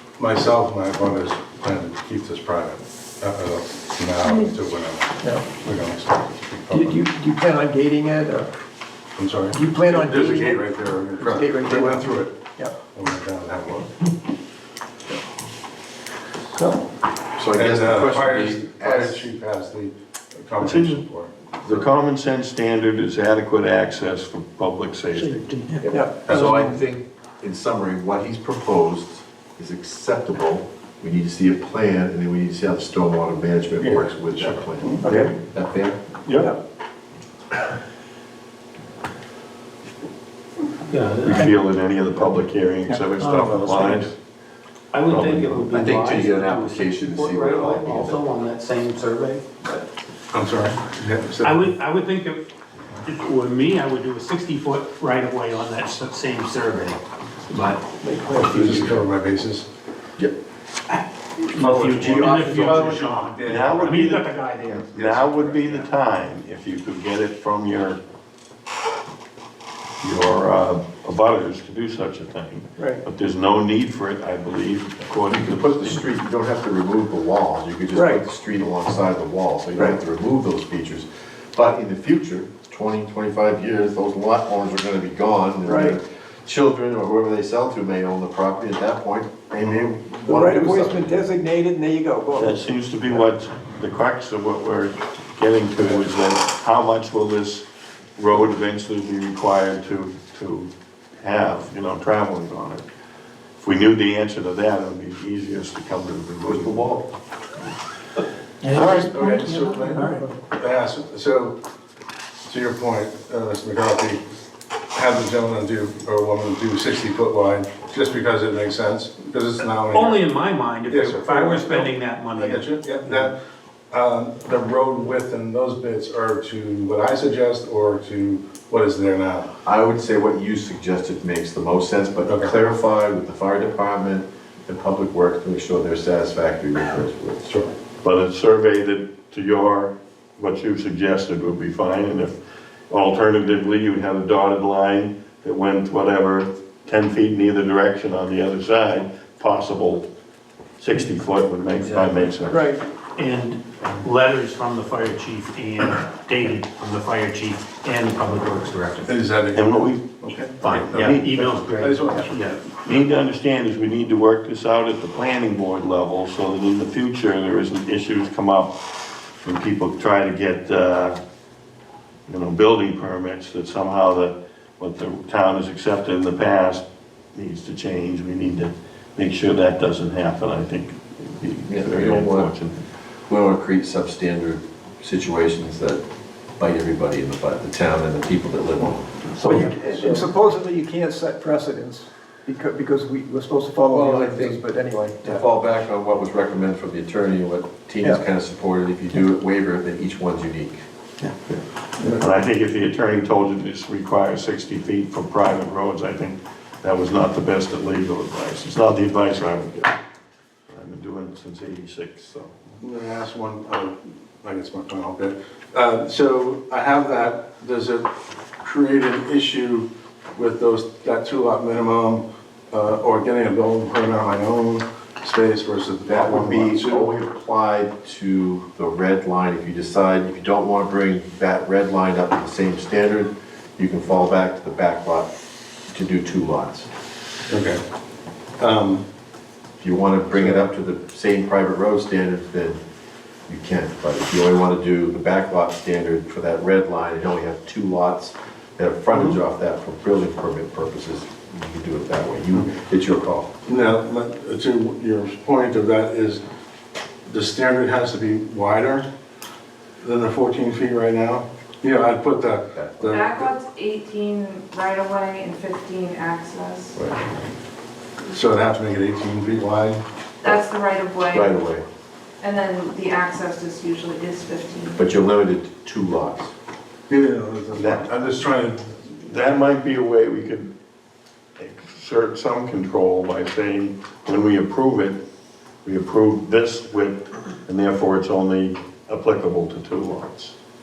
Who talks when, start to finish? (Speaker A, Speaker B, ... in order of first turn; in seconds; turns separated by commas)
Speaker A: 0.2-7.0, Speaker B: 6.7-8.5, Speaker A: 9.2-13.9, Speaker B: 9.5-12.7, Speaker B: 16.5-16.8, Speaker C: 17.4-19.2, Speaker A: 17.5-21.3, Speaker D: 20.6-21.0, Speaker D: 21.6-25.5, Speaker E: 25.1-25.9, Speaker C: 25.8-36.0, Speaker B: 25.9-26.8, Speaker A: 33.8-35.1, Speaker B: 35.0-35.3, Speaker D: 36.2-36.5, Speaker E: 40.9-41.5, Speaker D: 41.2-44.1, Speaker E: 43.1-44.1, Speaker E: 44.9-49.9, Speaker C: 45.1-48.3, Speaker A: 50.3-51.6, Speaker E: 51.4-52.4, Speaker E: 53.0-57.0, Speaker E: 57.5-59.0, Speaker B: 58.0-58.7, Speaker A: 58.4-59.7, Speaker E: 60.9-65.7, Speaker A: 61.6-63.7, Speaker D: 62.0-62.4, Speaker D: 63.5-64.3, Speaker D: 64.9-68.0, Speaker D: 70.0-76.0, Speaker B: 72.8-73.0, Speaker C: 75.3-91.2, Speaker B: 77.9-78.2, Speaker B: 85.7-86.0, Speaker B: 90.2-92.6, Speaker D: 92.3-102.8, Speaker D: 103.6-107.0, Speaker C: 106.4-107.0, Speaker B: 108.7-110.2, Speaker E: 108.7-109.0, Speaker D: 108.7-109.1, Speaker A: 108.7-111.6, Speaker E: 109.9-110.2, Speaker A: 112.5-114.2, Speaker A: 114.9-120.2, Speaker E: 119.9-122.6, Speaker A: 120.9-123.3, Speaker A: 123.9-129.5, Speaker C: 129.6-137.5, Speaker A: 132.3-132.5, Speaker A: 137.5-137.7, Speaker D: 138.0-142.4, Speaker D: 142.9-150.1, Speaker D: 150.8-152.7, Speaker B: 152.5-152.8, Speaker E: 153.2-159.1, Speaker A: 159.0-161.1, Speaker D: 159.5-161.5, Speaker E: 160.6-162.7, Speaker A: 161.6-162.5, Speaker D: 162.7-168.8, Speaker D: 169.4-171.2, Speaker D: 172.3-182.8, Speaker C: 181.7-182.5, Speaker C: 183.3-186.0, Speaker C: 186.6-189.2, Speaker D: 189.3-190.1, Speaker B: 189.4-195.4, Speaker C: 193.9-200.8, Speaker D: 202.1-209.9, Speaker D: 210.7-212.7, Speaker A: 212.8-218.1, Speaker A: 218.6-227.1, Speaker C: 226.1-235.3, Speaker C: 235.9-236.9, Speaker A: 237.5-237.8, Speaker A: 238.6-239.0, Speaker C: 239.8-242.8, Speaker A: 240.3-240.7, Speaker C: 243.5-253.5, Speaker A: 253.7-256.4, Speaker A: 257.3-259.1, Speaker A: 260.0-263.5, Speaker C: 262.8-263.1, Speaker F: 263.1-267.0, Speaker C: 266.9-267.2, Speaker A: 268.3-270.0, Speaker F: 270.4-271.5, Speaker C: 271.3-271.8, Speaker F: 272.4-275.0, Speaker C: 275.0-276.5, Speaker A: 277.1-279.0, Speaker D: 277.8-278.1, Speaker D: 279.2-280.7, Speaker D: 281.6-285.2, Speaker D: 285.8-290.6